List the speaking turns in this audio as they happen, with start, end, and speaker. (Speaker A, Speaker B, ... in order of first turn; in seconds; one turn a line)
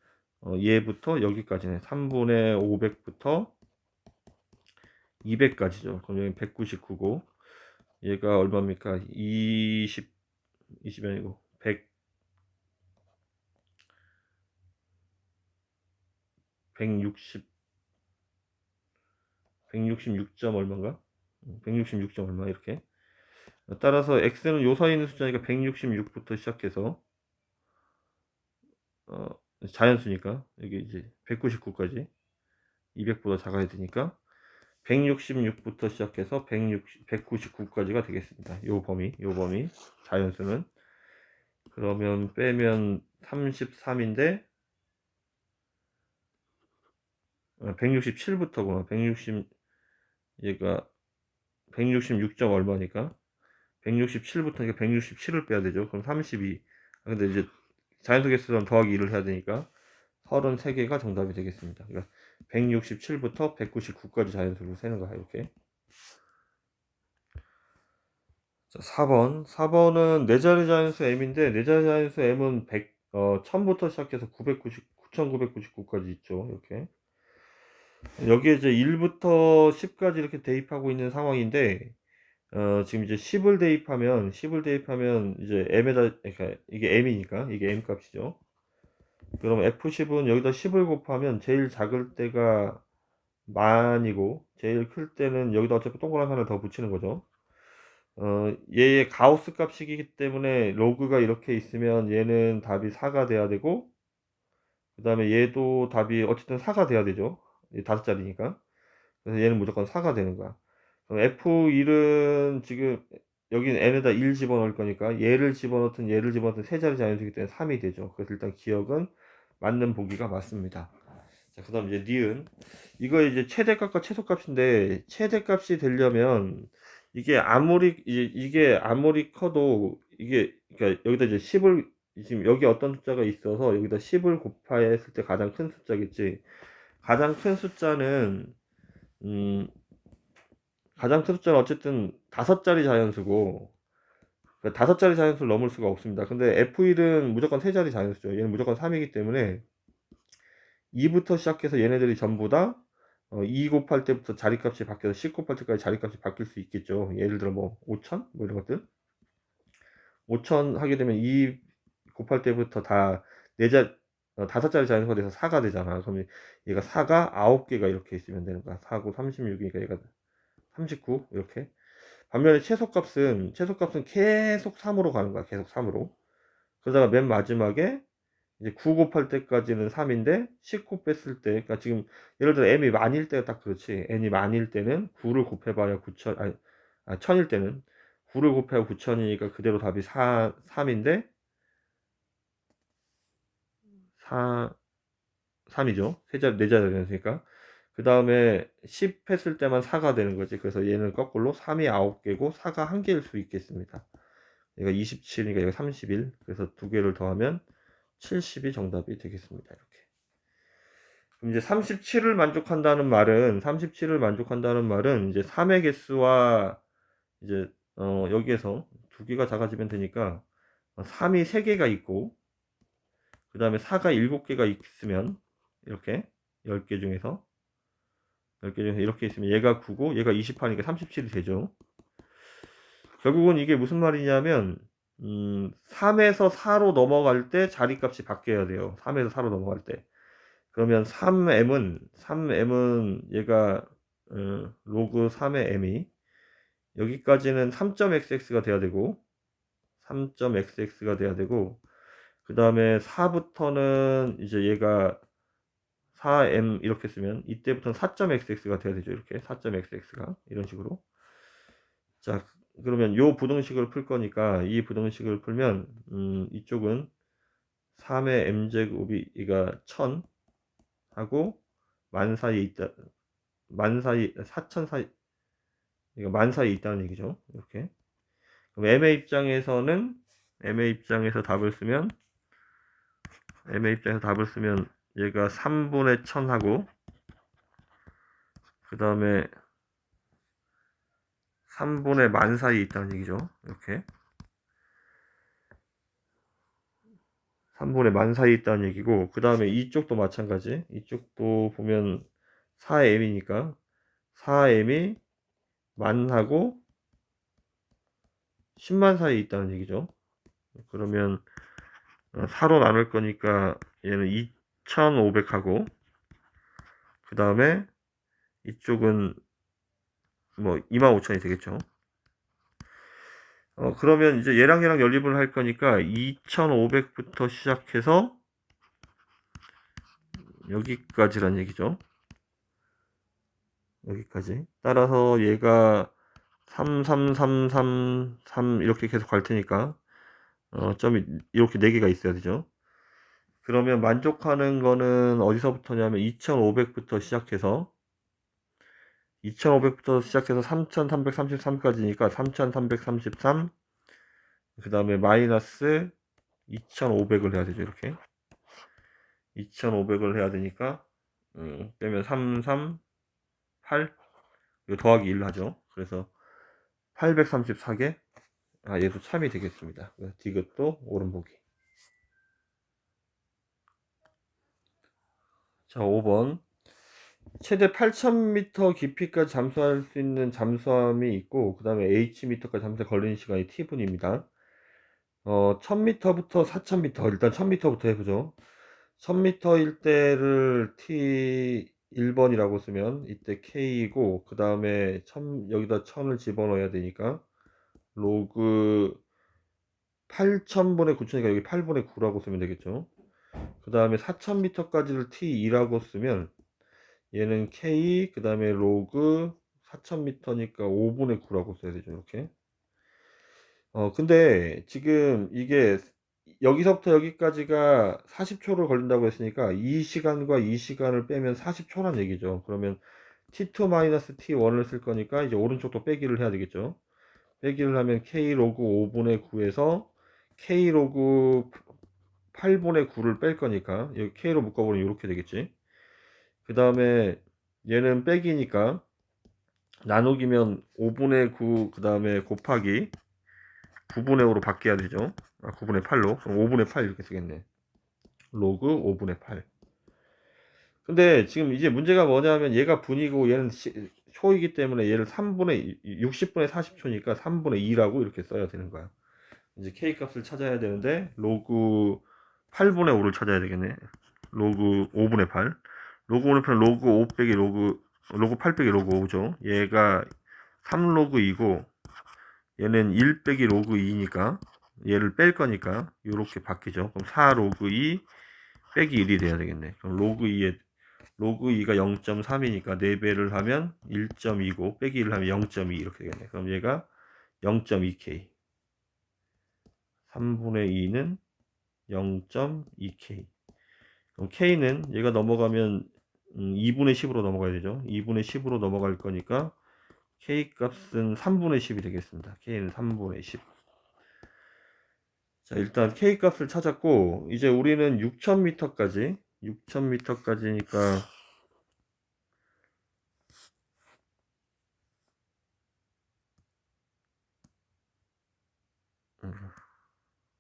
Speaker A: 0.4-3.5
Speaker A: 5.2-7.2
Speaker A: 8.0-10.1
Speaker A: 10.8-11.8
Speaker A: 16.8-17.4
Speaker A: 19.7-22.8
Speaker A: 23.7-27.0
Speaker A: 29.1-32.1
Speaker A: 32.9-34.1
Speaker A: 34.8-40.7
Speaker A: 41.7-44.4
Speaker A: 47.6-49.5
Speaker A: 50.4-50.9
Speaker A: 51.7-53.1
Speaker A: 53.8-59.7
Speaker A: 60.2-65.5
Speaker A: 68.7-76.9
Speaker A: 78.2-81.9
Speaker A: 82.5-88.4
Speaker A: 89.4-92.8
Speaker A: 93.5-97.2
Speaker A: 98.2-103.9
Speaker A: 105.0-108.6
Speaker A: 109.2-110.6
Speaker A: 111.1-120.9
Speaker A: 121.5-136.4
Speaker A: 137.0-138.5
Speaker A: 139.2-139.7
Speaker A: 141.0-143.7
Speaker A: 144.6-149.6
Speaker A: 150.9-158.9
Speaker A: 160.3-161.6
Speaker A: 162.1-170.1
Speaker A: 170.7-171.7
Speaker A: 172.3-176.1
Speaker A: 176.8-178.0
Speaker A: 178.6-191.3
Speaker A: 194.2-194.8
Speaker A: 195.7-204.0
Speaker A: 204.8-207.6
Speaker A: 208.2-210.0
Speaker A: 211.4-216.8
Speaker A: 217.4-220.4
Speaker A: 221.0-222.4
Speaker A: 223.5-227.4
Speaker A: 228.6-231.7
Speaker A: 233.2-240.0
Speaker A: 240.7-246.1
Speaker A: 246.9-249.2
Speaker A: 250.0-251.8
Speaker A: 252.4-255.2
Speaker A: 256.1-261.0
Speaker A: 262.2-267.1
Speaker A: 268.0-270.2
Speaker A: 271.1-271.6
Speaker A: 272.1-273.1
Speaker A: 273.7-275.1
Speaker A: 276.1-277.9
Speaker A: 278.8-282.1
Speaker A: 283.6-286.9
Speaker A: 288.9-289.5
Speaker A: 291.7-294.0
Speaker A: 297.8-302.2
Speaker A: 302.8-303.8
Speaker A: 304.3-305.2
Speaker A: 306.0-306.8
Speaker A: 308.8-310.1
Speaker A: 310.8-311.4
Speaker A: 312.3-315.9
Speaker A: 317.2-317.9
Speaker A: 318.6-319.4
Speaker A: 320.6-321.8
Speaker A: 323.8-328.4
Speaker A: 330.7-332.0
Speaker A: 334.0-336.1
Speaker A: 336.7-340.0
Speaker A: 340.7-342.7
Speaker A: 343.6-347.9
Speaker A: 349.4-353.7
Speaker A: 354.8-356.1
Speaker A: 356.7-358.2
Speaker A: 359.5-361.0
Speaker A: 361.5-363.0
Speaker A: 363.8-364.1
Speaker A: 364.9-366.3
Speaker A: 367.1-368.2
Speaker A: 368.8-371.6
Speaker A: 375.9-376.6
Speaker A: 377.6-384.4
Speaker A: 385.4-388.5
Speaker A: 389.2-397.4
Speaker A: 398.1-399.2
Speaker A: 400.3-403.1
Speaker A: 403.8-406.5
Speaker A: 407.3-412.5
Speaker A: 413.9-427.0
Speaker A: 427.6-431.8
Speaker A: 432.5-435.7
Speaker A: 436.6-439.0
Speaker A: 440.1-443.1
Speaker A: 444.1-447.6
Speaker A: 448.5-449.6
Speaker A: 451.1-459.1
Speaker A: 459.8-470.3
Speaker A: 470.8-471.9
Speaker A: 472.8-478.2
Speaker A: 478.9-480.8
Speaker A: 481.4-487.1
Speaker A: 487.6-488.5
Speaker A: 490.3-491.4
Speaker A: 492.1-493.5
Speaker A: 494.4-499.8
Speaker A: 500.4-503.6
Speaker A: 505.6-511.3
Speaker A: 519.4-519.7